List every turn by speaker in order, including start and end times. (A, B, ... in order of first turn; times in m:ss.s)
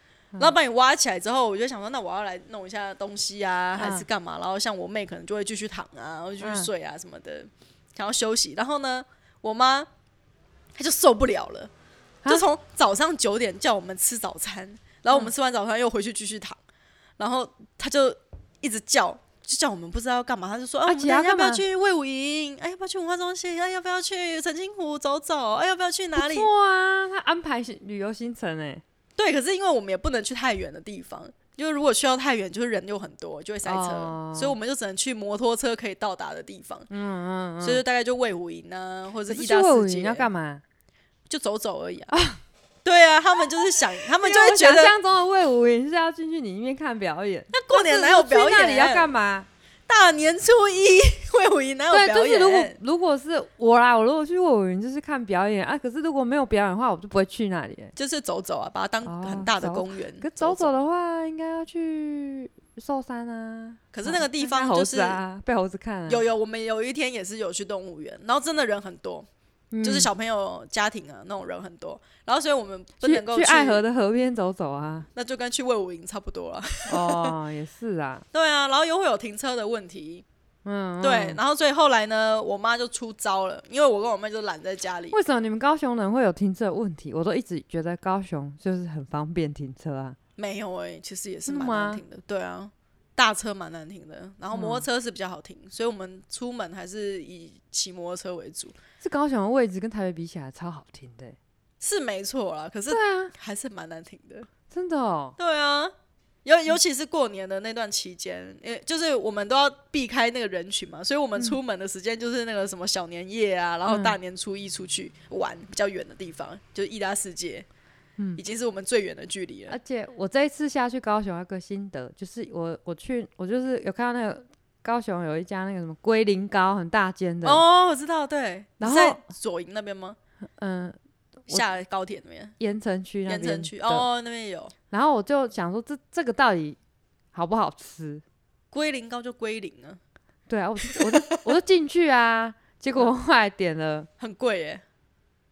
0:00.4-0:09.9 A
0:03.8-0:04.1 B
0:06.4-0:06.7 B
0:10.8-0:11.7 A
0:12.3-0:16.6 A
0:17.2-0:26.5 A
0:20.9-0:21.6 B
0:26.2-0:28.8 B
0:29.2-0:36.9 A
0:33.7-0:34.6 B
0:36.9-0:37.8 B
0:37.6-0:40.3 A
0:39.3-0:40.6 B
0:41.3-0:42.1 A
0:42.1-0:42.4 B
0:42.8-0:44.9 A
0:44.1-0:49.5 B
0:47.5-0:49.1 A
0:49.9-0:52.8 A
0:51.9-0:57.9 B
0:58.0-1:00.7 A
0:59.0-1:06.2 B
1:03.9-1:05.2 A
1:06.1-1:09.3 A
1:09.7-1:10.1 B
1:09.8-1:13.8 A
1:13.0-1:15.1 B
1:15.2-1:17.4 A
1:16.9-1:18.2 B
1:18.3-1:20.2 A
1:20.6-1:21.4 B
1:21.0-1:25.2 A
1:25.1-1:30.2 B
1:30.4-1:38.8 A
1:31.5-1:32.0 B
1:34.5-1:34.8 B
1:39.0-1:41.4 B
1:41.8-1:44.5 A
1:42.9-1:43.3 B
1:44.7-1:45.4 B
1:45.4-1:45.9 A
1:46.4-1:57.7 A
1:53.9-1:54.2 B
1:58.4-1:59.8 A
1:59.7-2:07.6 B
2:07.4-2:10.2 A
2:08.8-2:09.2 B
2:10.6-2:11.7 B
2:11.5-2:12.6 A
2:12.6-2:14.1 B
2:13.3-2:14.7 A
2:14.9-2:16.8 B
2:17.3-2:18.2 B
2:18.7-2:20.0 A
2:20.5-2:24.1 B
2:20.9-2:21.5 A
2:24.2-2:24.8 A